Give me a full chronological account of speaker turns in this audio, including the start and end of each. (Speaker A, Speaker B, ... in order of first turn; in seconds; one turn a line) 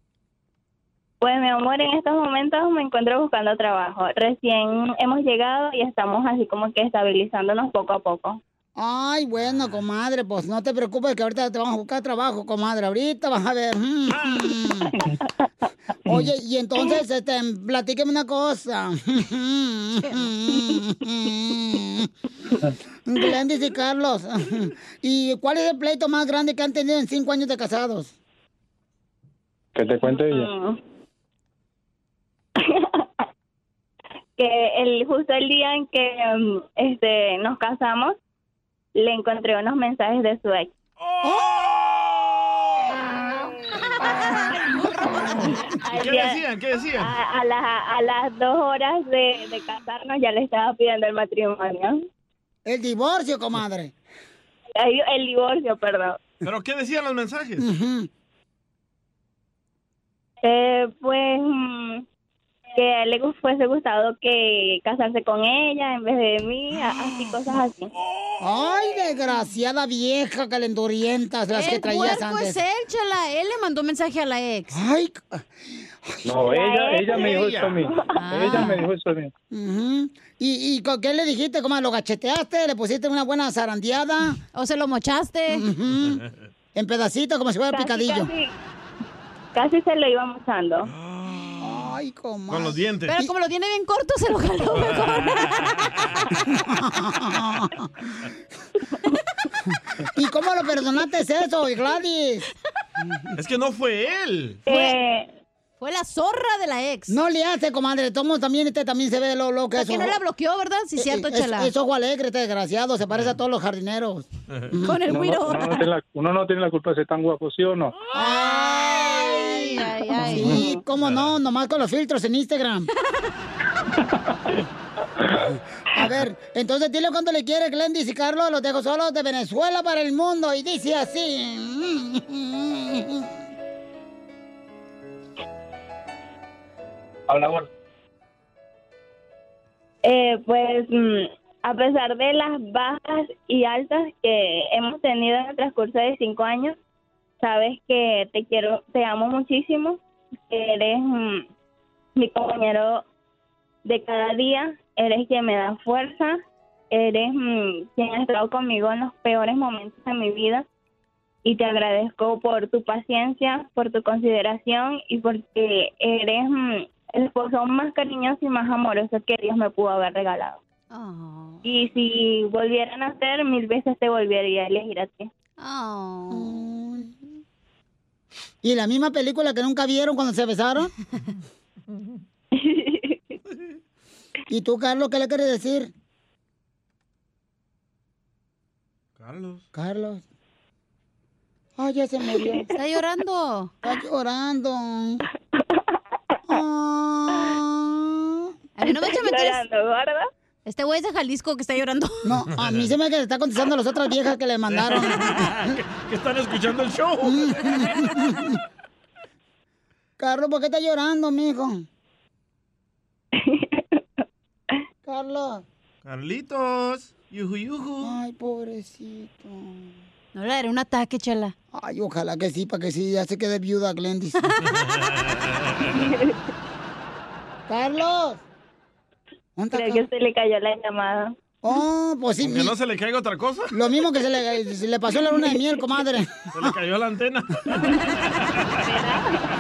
Speaker A: 1.2-8.4
Speaker B: 8.8-14.9
Speaker B: 16.1-22.1
Speaker B: 23.1-28.1
Speaker C: 29.7-30.5
Speaker A: 30.0-30.8
Speaker A: 32.6-33.0
Speaker A: 34.4-38.1
Speaker A: 39.0-40.7
Speaker D: 41.0-43.0
Speaker D: 45.2-47.1
Speaker A: 45.8-46.4
Speaker A: 47.0-52.0
Speaker B: 52.6-53.9
Speaker A: 54.8-56.2
Speaker D: 56.4-57.6
Speaker B: 57.6-58.1
Speaker A: 60.4-62.0
Speaker A: 62.8-67.9
Speaker D: 68.0-68.9
Speaker B: 68.4-72.6
Speaker E: 71.5-74.8
Speaker B: 74.7-75.5
Speaker B: 76.0-76.3
Speaker C: 76.2-79.3
Speaker A: 76.4-77.4
Speaker D: 77.1-77.8
Speaker E: 78.2-78.9
Speaker B: 79.5-84.4
Speaker E: 84.5-85.7
Speaker B: 85.5-86.2
Speaker B: 86.7-88.3
Speaker A: 87.7-88.5
Speaker A: 89.5-90.9
Speaker D: 90.9-91.9
Speaker B: 91.6-93.3
Speaker D: 92.5-93.2
Speaker E: 93.1-95.8
Speaker B: 96.5-97.9
Speaker B: 100.2-102.5
Speaker D: 103.3-104.6
Speaker A: 104.7-105.3
Speaker E: 104.7-104.9
Speaker E: 105.8-107.2
Speaker B: 107.1-110.2
Speaker E: 109.8-111.7
Speaker B: 111.0-115.0
Speaker E: 114.8-115.8
Speaker C: 115.1-117.9
Speaker B: 118.1-122.9
Speaker E: 118.4-120.7
Speaker C: 120.3-120.7
Speaker D: 121.0-121.3
Speaker B: 125.9-133.3
Speaker C: 137.3-137.7
Speaker A: 140.0-146.8
Speaker A: 147.4-150.0
Speaker A: 150.5-151.4
Speaker A: 152.2-153.0
Speaker A: 153.8-156.4
Speaker A: 156.9-160.6
Speaker A: 161.4-170.6
Speaker E: 170.9-171.6
Speaker A: 171.6-175.3
Speaker E: 175.6-176.6
Speaker B: 176.3-177.1
Speaker B: 178.6-180.9
Speaker A: 182.5-183.3
Speaker B: 184.5-185.9
Speaker D: 189.2-189.6
Speaker B: 189.7-190.2
Speaker B: 191.8-192.7
Speaker E: 192.7-193.7
Speaker B: 193.8-195.2
Speaker B: 196.5-198.5
Speaker E: 198.8-199.6
Speaker A: 198.9-200.2
Speaker E: 200.7-202.3
Speaker B: 202.2-205.7
Speaker D: 202.5-202.9
Speaker D: 204.7-207.5
Speaker B: 207.2-208.5
Speaker B: 210.2-211.8
Speaker A: 213.4-213.8
Speaker B: 215.0-215.6
Speaker D: 216.0-218.2
Speaker B: 218.0-220.0
Speaker E: 220.3-221.5
Speaker B: 221.7-224.4
Speaker A: 225.9-226.3
Speaker B: 227.7-228.4
Speaker B: 229.6-230.1
Speaker A: 229.7-231.3
Speaker B: 231.6-232.7
Speaker D: 232.4-233.7
Speaker B: 233.7-236.3
Speaker D: 236.5-237.9
Speaker D: 238.5-238.9
Speaker A: 238.8-239.2